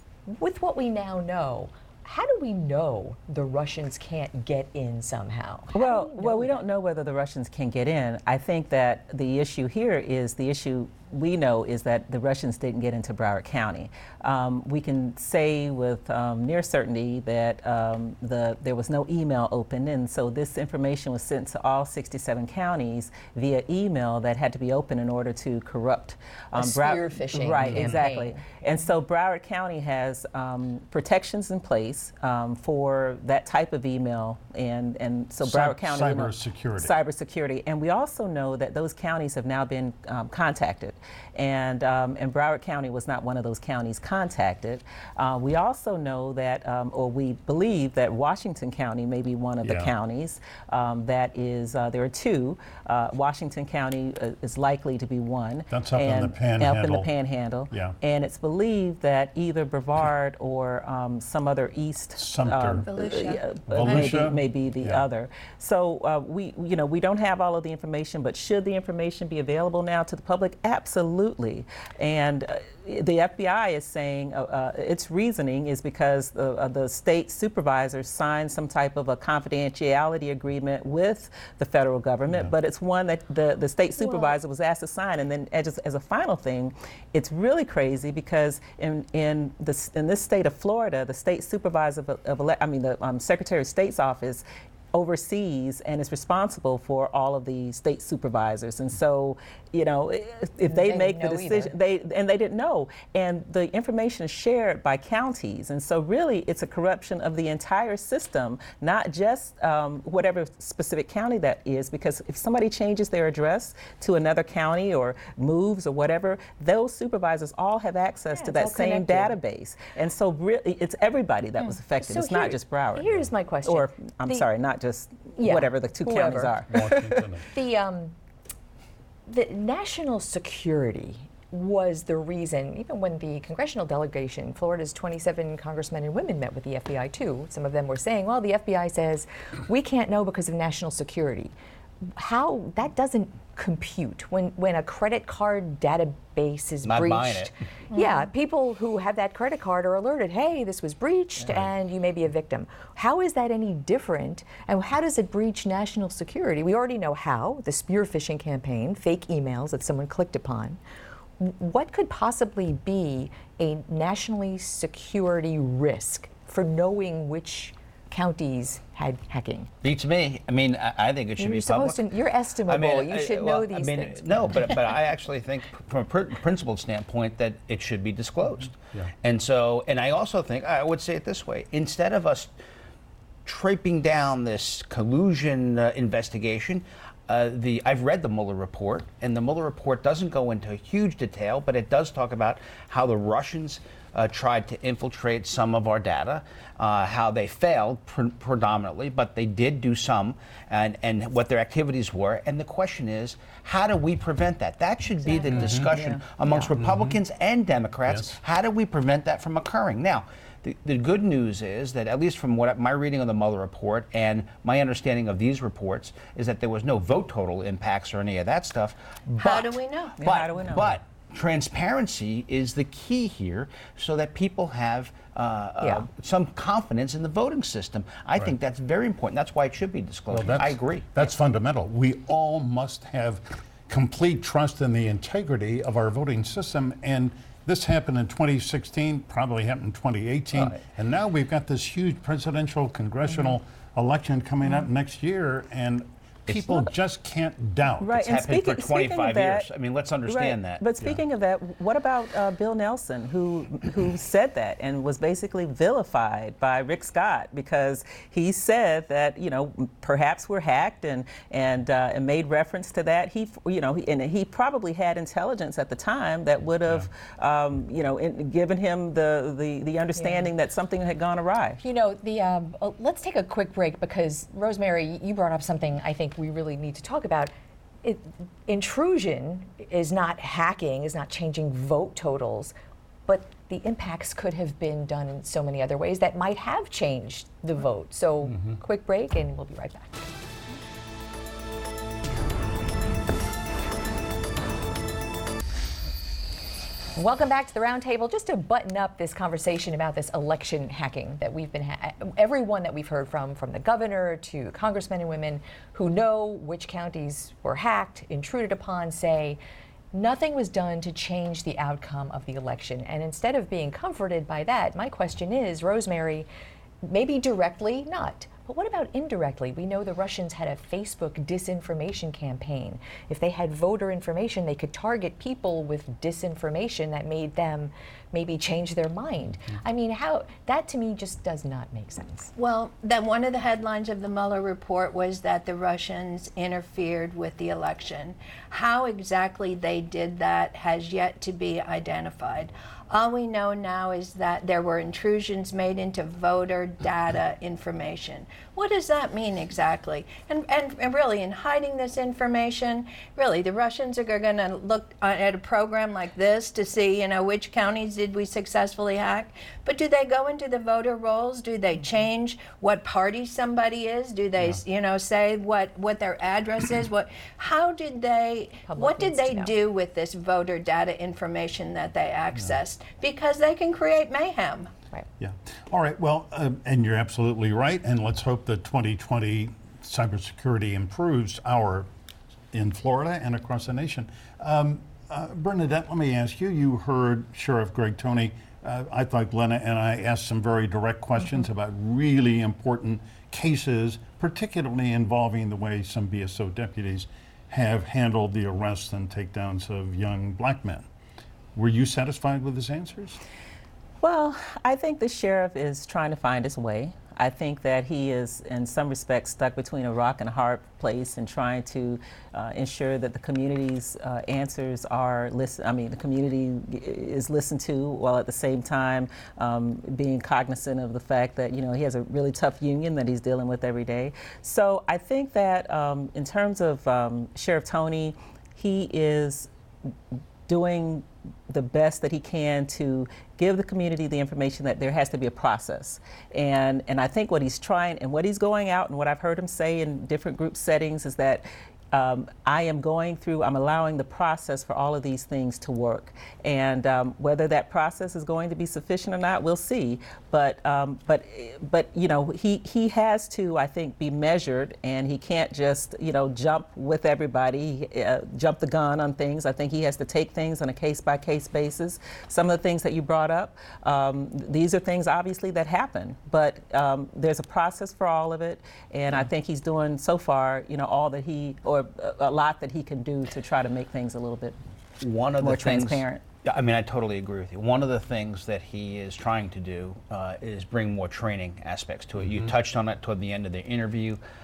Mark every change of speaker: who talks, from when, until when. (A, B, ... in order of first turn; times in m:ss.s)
0:00.3-0:06.6 A
0:05.7-2:07.4 B
0:26.5-0:28.6 A
0:27.6-0:28.0 C
0:35.4-0:36.9 C
0:49.6-0:49.9 C
0:55.7-0:57.1 C
0:57.7-0:58.0 C
1:02.2-1:02.9 C
1:02.9-1:03.4 D
1:03.7-1:05.0 C
1:40.7-1:41.7 A
1:58.3-1:59.4 A
2:01.6-2:04.4 A
2:05.4-2:06.5 A
2:06.7-2:07.4 C
2:07.5-2:08.1 A
2:09.3-2:21.5 A
2:22.2-2:40.8 A
2:26.8-2:27.5 E
2:41.4-2:49.7 A
2:49.8-2:52.1 E
2:51.4-2:54.9 A
2:52.6-3:02.5 E
3:03.4-3:39.7 E
3:25.5-3:26.2 B
3:25.5-3:25.9 C
3:26.8-3:27.2 C
3:39.4-3:40.2 D
3:40.2-3:41.0 B
3:40.2-3:51.2 E
3:50.3-4:08.2 C
4:06.5-4:06.8 E
4:08.0-4:09.7 B
4:08.2-4:10.8 E
4:10.2-4:31.8 B
4:31.8-4:37.5 A
4:38.0-4:42.7 A
4:43.3-4:50.3 A
4:57.2-5:09.6 A
5:10.1-5:16.5 A
5:17.0-5:32.5 A
5:32.6-6:14.9 D
6:08.9-6:09.7 A
6:15.4-6:22.1 C
6:22.7-6:41.1 C
6:41.7-6:43.4 C
6:44.2-7:09.7 B
7:10.7-7:54.8 B
7:55.2-8:04.4 E
7:55.6-7:56.4 B